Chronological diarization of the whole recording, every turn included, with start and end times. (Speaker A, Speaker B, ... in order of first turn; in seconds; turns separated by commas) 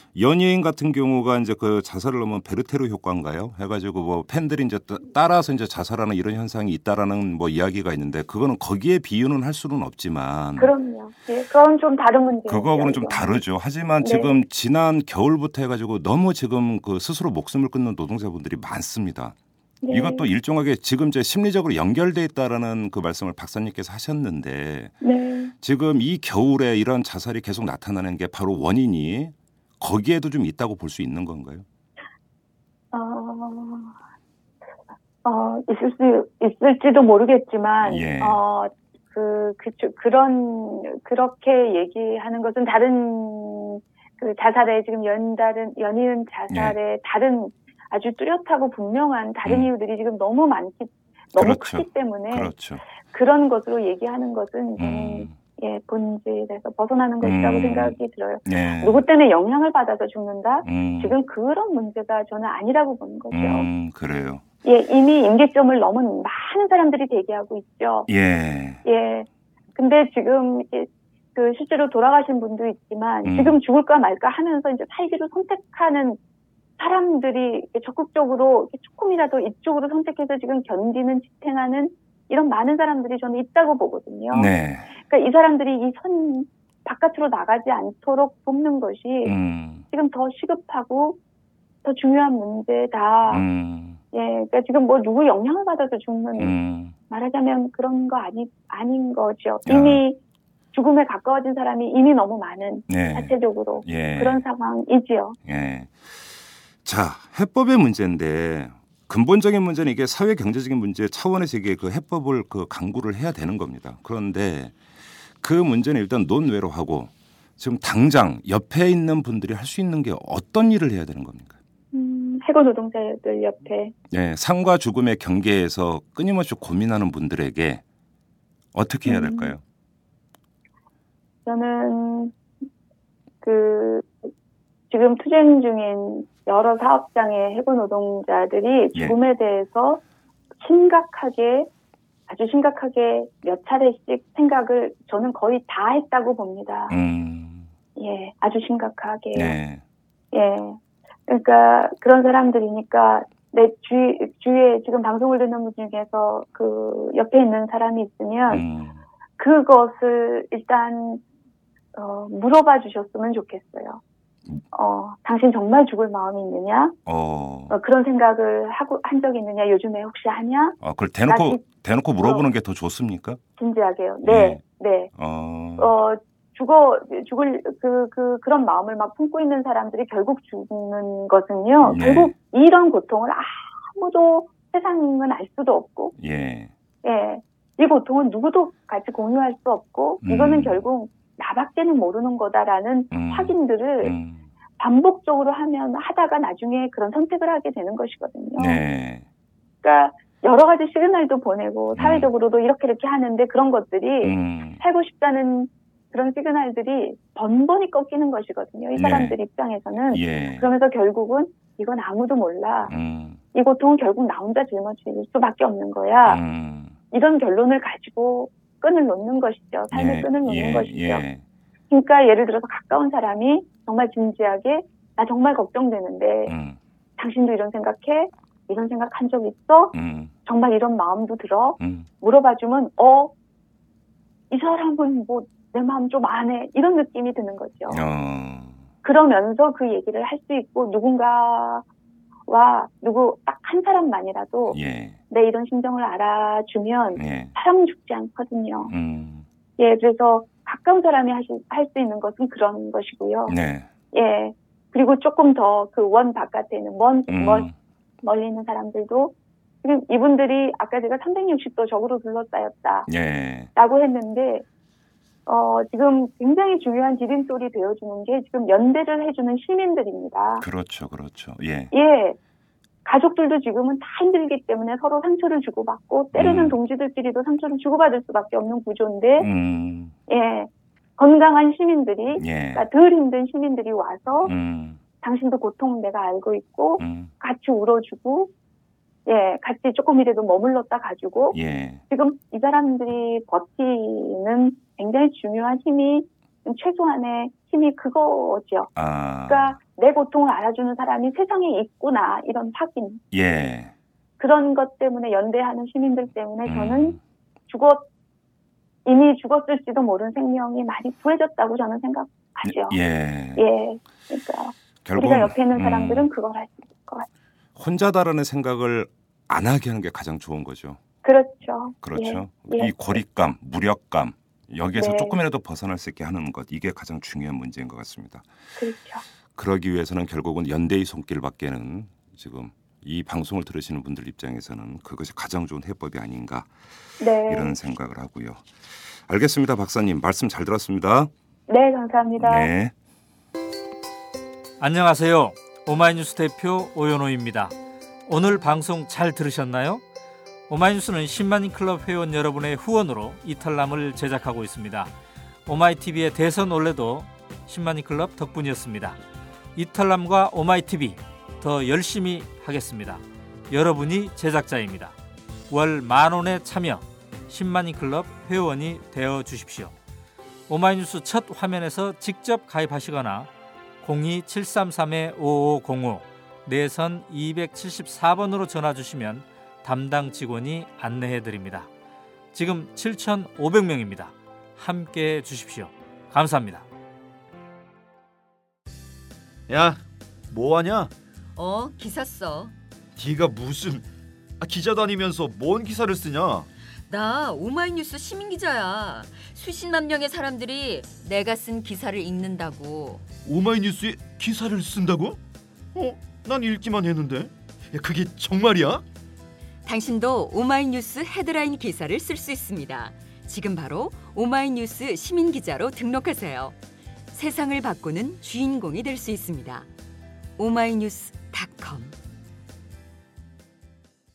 Speaker A: 0.1-10.7, Speaker B: 10.6-13.4, Speaker A: 12.5-19.4, Speaker B: 14.0-14.3, Speaker B: 19.8-20.3, Speaker A: 19.9-24.9, Speaker B: 25.0-25.5, Speaker A: 25.6-31.6, Speaker B: 32.9-34.0, Speaker B: 35.2-52.5, Speaker A: 37.8-38.4, Speaker A: 46.5-46.8, Speaker A: 49.5-49.7, Speaker A: 51.3-52.8, Speaker B: 53.1-63.7, Speaker A: 54.8-55.4, Speaker A: 57.2-59.0, Speaker A: 60.6-61.1, Speaker A: 63.3-64.4, Speaker B: 64.6-68.1, Speaker A: 68.1-68.8, Speaker B: 68.8-76.2, Speaker A: 73.2-73.6, Speaker B: 76.8-89.3, Speaker A: 84.3-84.9, Speaker A: 89.2-89.8, Speaker B: 89.9-91.2, Speaker B: 91.8-93.4, Speaker A: 93.3-94.0, Speaker B: 94.1-96.5, Speaker A: 96.4-96.9, Speaker B: 97.1-100.2, Speaker A: 99.7-100.0, Speaker B: 100.7-105.4, Speaker A: 102.9-104.4, Speaker A: 105.4-114.8, Speaker A: 115.4-121.5, Speaker B: 121.9-123.9, Speaker A: 124.1-127.8, Speaker A: 128.7-129.6, Speaker B: 129.1-129.5, Speaker B: 131.4-132.3, Speaker B: 133.4-134.3, Speaker B: 134.9-140.0, Speaker B: 140.6-141.7, Speaker B: 142.3-147.0, Speaker A: 146.9-147.7, Speaker B: 147.9-149.6, Speaker A: 149.3-149.8, Speaker B: 150.3-158.6, Speaker A: 158.5-159.0, Speaker B: 159.4-161.2, Speaker B: 161.9-164.0, Speaker B: 164.7-167.0, Speaker A: 167.1-167.7, Speaker B: 167.7-171.6, Speaker A: 170.8-173.4, Speaker B: 172.2-172.5, Speaker B: 173.6-175.1, Speaker A: 174.2-174.6, Speaker A: 175.1-175.9, Speaker B: 175.8-186.1, Speaker A: 181.8-182.3, Speaker A: 186.2-186.7, Speaker B: 187.0-194.1, Speaker A: 190.2-190.8, Speaker A: 193.1-194.4, Speaker B: 194.8-198.8, Speaker A: 198.6-199.2, Speaker B: 199.8-212.9, Speaker A: 201.9-202.3, Speaker A: 204.2-204.8, Speaker A: 209.0-209.3, Speaker A: 210.1-210.7, Speaker A: 212.9-213.4, Speaker B: 213.5-216.4, Speaker A: 216.2-216.9, Speaker B: 217.1-221.2, Speaker A: 219.9-221.4, Speaker B: 221.9-226.5, Speaker A: 226.5-226.8, Speaker B: 227.2-233.3, Speaker A: 229.9-230.3, Speaker A: 231.8-232.1, Speaker B: 234.5-238.0, Speaker A: 237.9-238.8, Speaker B: 239.0-241.8, Speaker B: 242.5-248.9, Speaker A: 244.7-245.2, Speaker A: 247.1-247.5, Speaker A: 248.9-249.4, Speaker B: 249.8-253.6, Speaker A: 253.5-253.9, Speaker B: 254.1-257.7, Speaker A: 257.3-257.7, Speaker B: 258.2-263.1, Speaker A: 263.1-263.7, Speaker B: 263.7-264.6, Speaker B: 265.4-270.6, Speaker A: 270.6-271.9, Speaker B: 271.9-272.4, Speaker B: 273.0-279.5, Speaker A: 276.3-276.8, Speaker A: 279.4-280.1, Speaker B: 280.3-284.5, Speaker A: 282.4-282.9, Speaker A: 284.4-285.0, Speaker B: 285.2-288.5, Speaker A: 287.0-287.3, Speaker B: 289.2-291.6, Speaker A: 291.5-292.0, Speaker B: 292.1-298.9, Speaker A: 298.9-299.8, Speaker B: 299.5-303.2, Speaker A: 303.3-303.9, Speaker B: 304.4-308.1, Speaker A: 306.6-307.2, Speaker B: 309.0-313.0, Speaker A: 312.6-313.6, Speaker B: 313.6-317.3, Speaker A: 315.0-316.3, Speaker A: 317.8-321.0, Speaker B: 321.2-323.2, Speaker A: 322.0-328.4, Speaker B: 324.9-325.3, Speaker B: 328.8-329.2, Speaker A: 329.5-336.7, Speaker B: 337.2-337.8, Speaker A: 337.4-338.7, Speaker A: 339.2-341.3, Speaker B: 341.7-342.7, Speaker A: 342.4-342.9, Speaker C: 344.8-347.7, Speaker C: 348.3-350.0, Speaker C: 350.7-355.1, Speaker C: 355.6-359.2, Speaker C: 359.8-365.1, Speaker C: 365.7-369.9, Speaker C: 370.7-373.5, Speaker C: 374.0-381.9, Speaker C: 382.5-386.9, Speaker D: 389.7-391.1, Speaker E: 391.6-392.7, Speaker D: 393.2-394.1, Speaker D: 394.6-396.7, Speaker E: 397.1-403.2, Speaker D: 403.4-405.4, Speaker D: 405.9-409.0, Speaker E: 409.9-416.8, Speaker E: 417.3-419.9, Speaker E: 420.6-422.1